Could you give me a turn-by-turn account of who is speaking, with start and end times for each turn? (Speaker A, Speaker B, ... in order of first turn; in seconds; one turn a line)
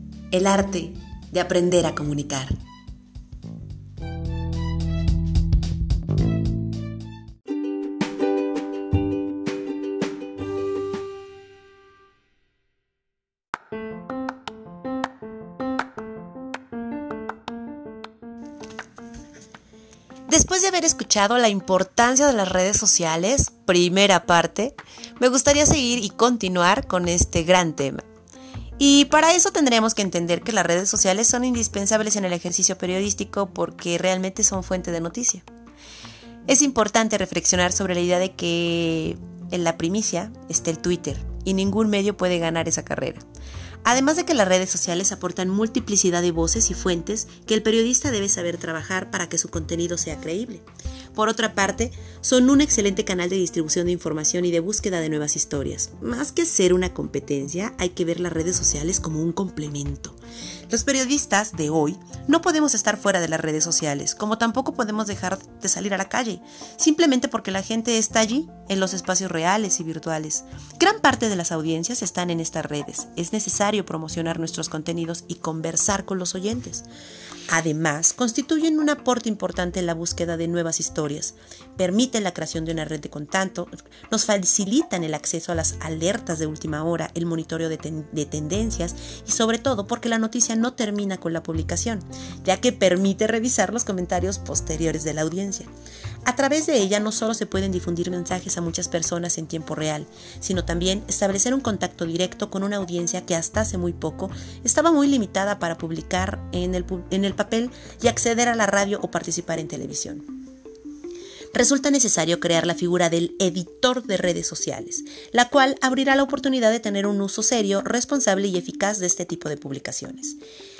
Speaker A: 0.3-2.6
Speaker A: 20.3-28.0
Speaker A: 28.8-35.4
Speaker A: 36.5-43.2
Speaker A: 43.8-60.2
Speaker A: 60.7-76.9
Speaker A: 77.5-95.7
Speaker A: 96.2-110.2
Speaker A: 111.5-120.4